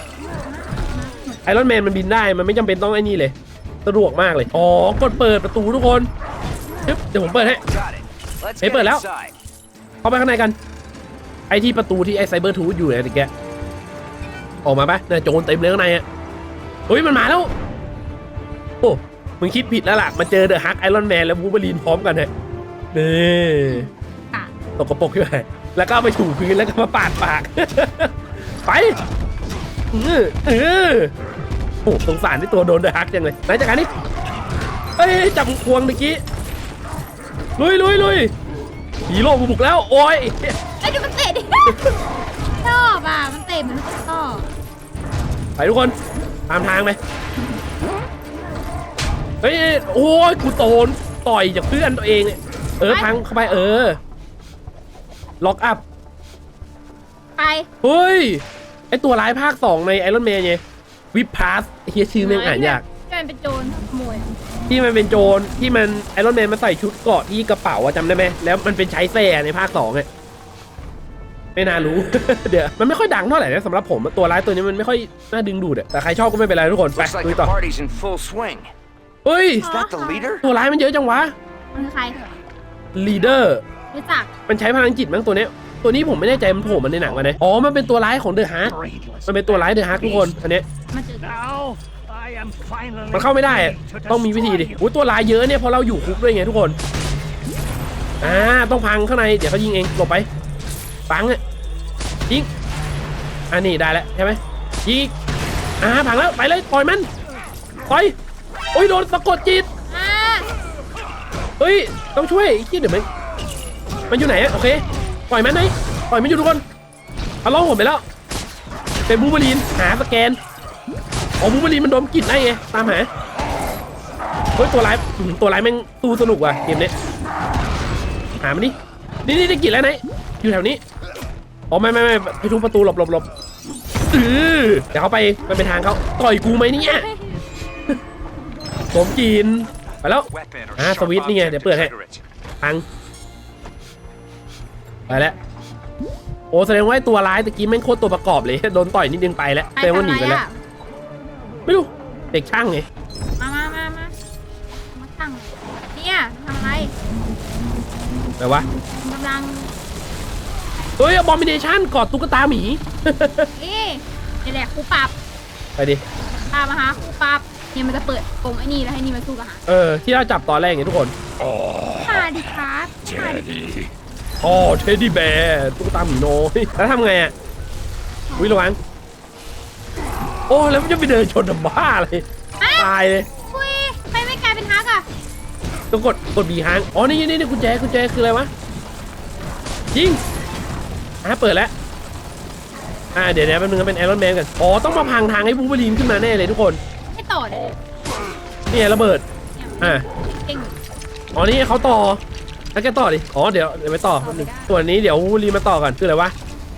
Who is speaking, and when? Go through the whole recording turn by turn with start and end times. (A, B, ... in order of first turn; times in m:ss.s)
0:00.4-0:01.5 A
0:01.4-0:03.3 B
0:03.8-0:06.1 B
0:06.8-0:07.6 B
0:07.3-0:09.3 C
0:08.6-0:09.0 B
0:10.0-0:10.6 B
0:11.5-0:13.3 B
0:14.6-0:16.0 B
0:16.9-0:17.5 B
0:18.8-0:22.3 B
0:22.9-0:23.9 B
0:23.6-0:24.5 A
0:24.8-0:29.0 B
0:29.9-0:31.1 B
0:31.8-0:33.9 B
0:35.0-0:36.2 B
0:37.6-0:38.3 B
0:39.1-0:40.6 B
0:40.8-0:41.8 A
0:41.7-0:41.9 B
0:42.6-0:44.5 A
0:45.6-0:45.9 B
0:46.5-0:47.0 B
0:49.4-0:54.0 B
0:55.4-0:55.8 B
0:57.4-0:57.7 A
0:57.8-1:00.6 B
1:01.1-1:02.8 B
1:02.2-1:04.3 A
1:04.7-1:10.1 B
1:11.5-1:17.5 B
1:16.9-1:18.7 C
1:19.2-1:19.6 B
1:19.6-1:20.4 A
1:19.6-1:20.4 C
1:20.4-1:21.3 B
1:21.7-1:22.4 A
1:22.9-1:23.6 B
1:23.9-1:24.3 A
1:24.5-1:30.6 B
1:28.7-1:30.3 C
1:28.8-1:29.2 D
1:30.9-1:31.4 A
1:33.1-1:36.8 B
1:33.6-1:34.6 D
1:38.2-1:40.2 B
1:38.2-1:38.6 A
1:41.1-1:41.4 B
1:43.5-1:45.1 B
1:45.8-1:47.1 B
1:47.9-1:48.1 B
1:48.7-1:49.7 B
1:49.9-1:50.5 A
1:51.6-1:53.0 B
1:54.1-1:56.6 B
1:57.4-1:58.0 B
1:59.1-2:00.4 B
2:01.4-2:03.1 B
2:04.6-2:06.9 B
2:08.4-2:08.7 B
2:09.2-2:10.8 B
2:11.7-2:13.3 B
2:14.1-2:17.1 B
2:16.8-2:17.4 A
2:18.9-2:21.9 B
2:20.2-2:22.2 E
2:25.1-2:25.4 A
2:25.1-2:25.3 B
2:26.5-2:30.4 B
2:29.8-2:30.5 A
2:31.6-2:32.8 B
2:33.4-2:34.1 A
2:34.7-2:36.9 A
2:38.4-2:38.6 B
2:38.9-2:39.8 A
2:41.0-2:43.5 B
2:43.6-2:45.1 A
2:46.5-2:49.6 A
2:49.7-2:51.1 B
2:51.4-2:52.4 D
2:52.0-2:53.5 A
2:53.0-2:53.9 D
2:54.4-2:57.3 B
2:58.3-2:58.6 A
2:58.4-2:58.8 B
3:00.5-3:03.3 B
3:02.6-3:02.9 A
3:03.5-3:05.0 A
3:05.9-3:08.5 B
3:09.9-3:10.2 B
3:11.2-3:11.7 B
3:13.1-3:16.8 B
3:17.1-3:17.8 A
3:18.7-3:19.2 B
3:19.5-3:20.8 A
3:19.8-3:20.0 B
3:21.4-3:22.2 B
3:22.7-3:26.3 B
3:24.2-3:24.8 A